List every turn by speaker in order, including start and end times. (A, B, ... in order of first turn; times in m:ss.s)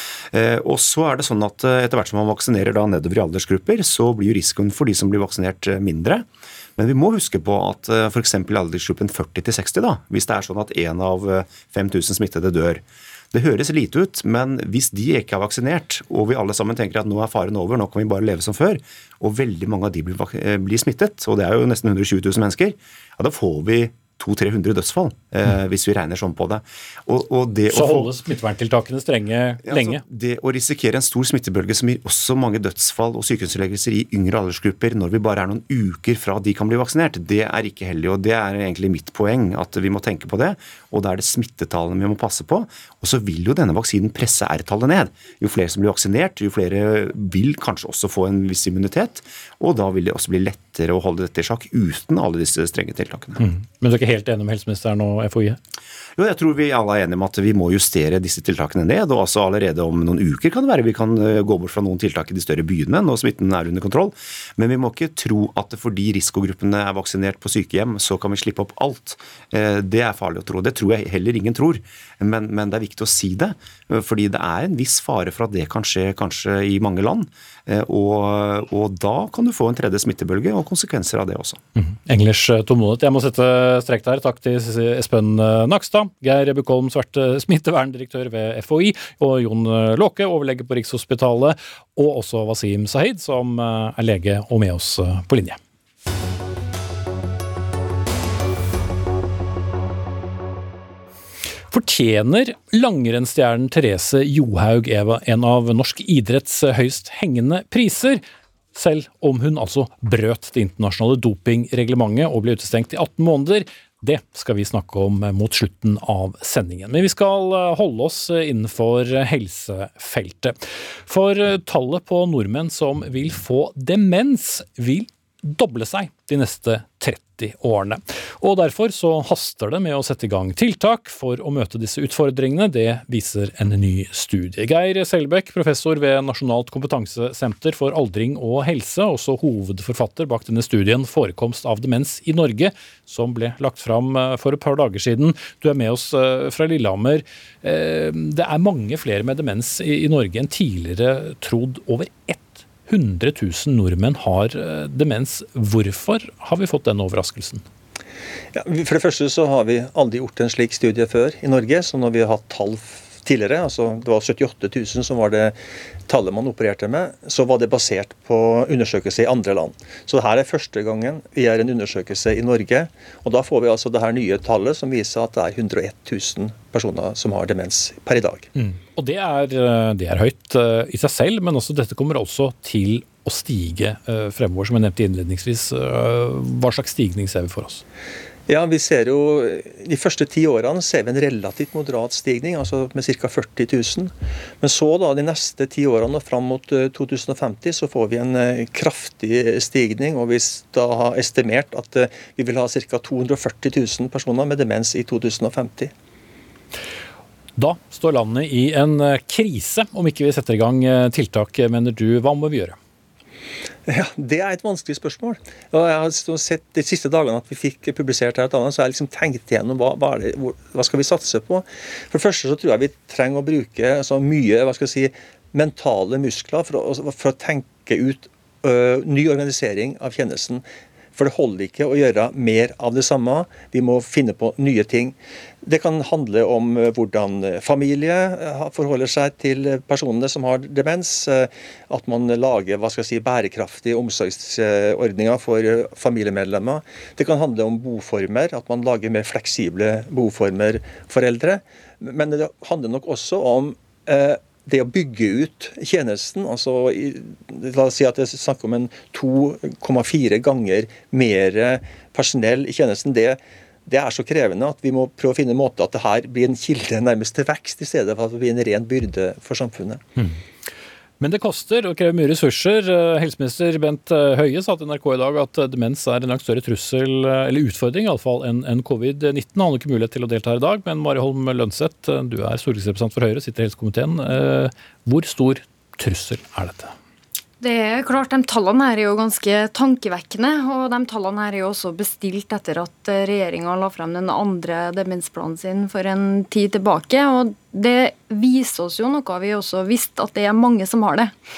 0:00.3-0:28.1 A
0:27.7-0:30.0 B
0:29.6-0:53.4 A
0:53.4-0:55.6 B
0:56.2-1:21.6 A
1:21.8-1:35.6 B
1:41.7-1:48.2 B
1:48.7-2:37.6 B
2:38.5-2:58.5 C
2:58.5-3:07.8 B
3:08.5-3:25.9 C
3:27.6-3:32.8 B
3:33.8-4:30.0 C
4:31.2-4:46.9 B
4:47.6-5:01.3 D